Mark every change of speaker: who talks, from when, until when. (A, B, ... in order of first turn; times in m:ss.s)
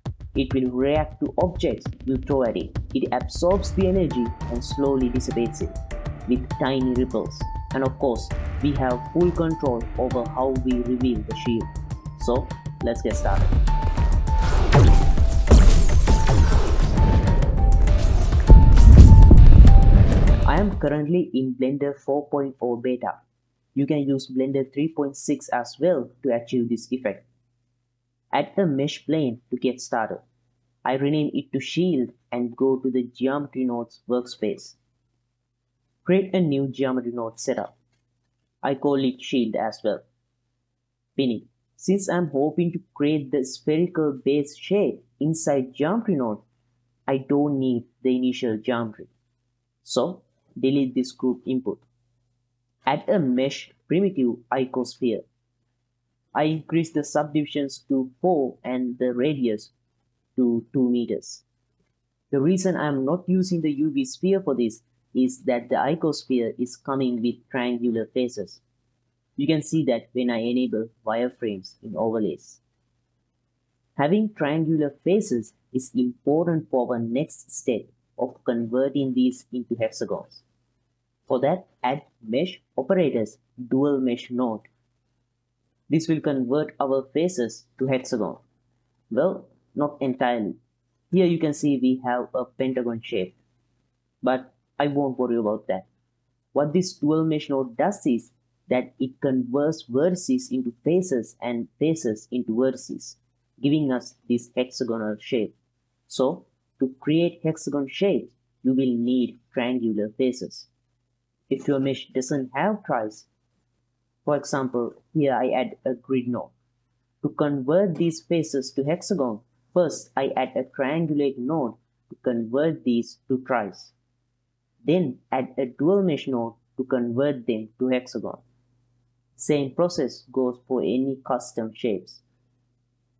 0:00.4-0:05.8 A
0:06.3-0:13.5 A
0:20.5-0:23.2 A
0:23.8-0:27.2 A
0:28.3-0:30.2 A
0:30.8-0:34.8 A
0:36.0-0:37.7 A
0:38.6-0:40.0 A
0:41.2-0:46.4 A
0:47.1-0:49.1 A
0:49.8-0:51.8 A
0:52.9-0:55.2 A
0:56.3-0:59.7 A
1:00.4-1:01.4 A
1:02.3-1:08.6 A
1:09.4-1:12.6 A
1:14.0-1:20.4 A
1:21.3-1:24.7 A
1:25.9-1:28.4 A
1:29.1-1:30.6 A
1:31.1-1:33.4 A
1:34.2-1:35.9 A
1:36.5-1:45.5 A
1:46.1-1:50.7 A
1:51.5-1:53.3 A
1:54.2-1:56.5 A
1:57.2-2:04.0 A
2:04.8-2:08.4 A
2:09.4-2:12.2 A